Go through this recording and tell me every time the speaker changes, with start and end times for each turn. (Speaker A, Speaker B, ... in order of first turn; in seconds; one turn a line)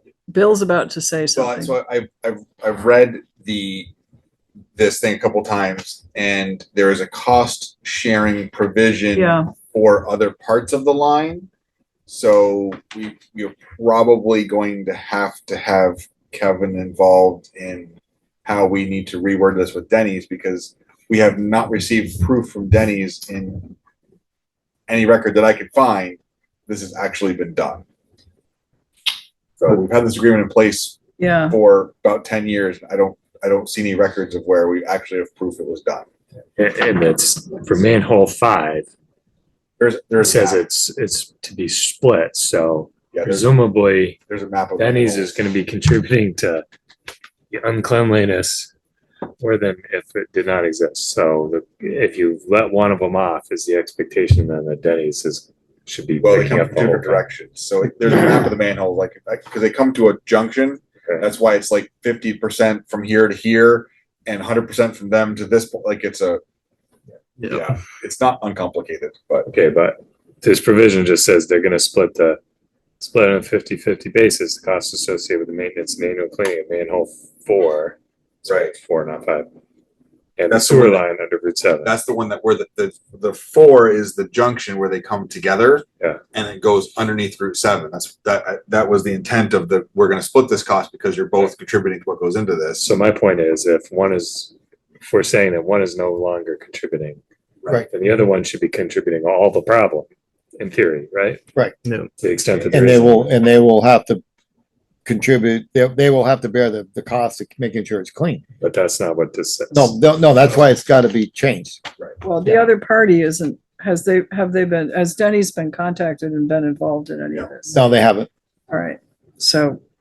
Speaker A: 0.3-1.8
Speaker B: 1.4-3.9
Speaker B: 4.8-11.5
Speaker A: 9.2-9.5
Speaker B: 12.1-17.9
Speaker B: 18.4-23.7
Speaker B: 24.9-27.8
Speaker B: 29.6-36.1
Speaker A: 31.2-31.6
Speaker C: 36.6-38.9
Speaker B: 39.8-40.6
Speaker C: 40.2-44.2
Speaker B: 43.1-43.5
Speaker B: 44.3-45.4
Speaker C: 44.8-46.6
Speaker C: 47.5-48.7
Speaker C: 49.4-57.3
Speaker B: 56.2-66.4
Speaker B: 67.4-69.5
Speaker C: 69.5-72.4
Speaker C: 73.0-79.5
Speaker B: 78.5-78.7
Speaker C: 80.4-82.0
Speaker B: 80.5-81.0
Speaker B: 81.8-92.9
Speaker C: 92.8-97.2
Speaker C: 97.9-101.4
Speaker C: 102.2-103.3
Speaker D: 102.7-104.2
Speaker D: 105.1-108.4
Speaker C: 108.6-110.0
Speaker D: 109.7-111.8
Speaker A: 112.2-117.8
Speaker D: 117.7-118.3
Speaker A: 118.7-119.8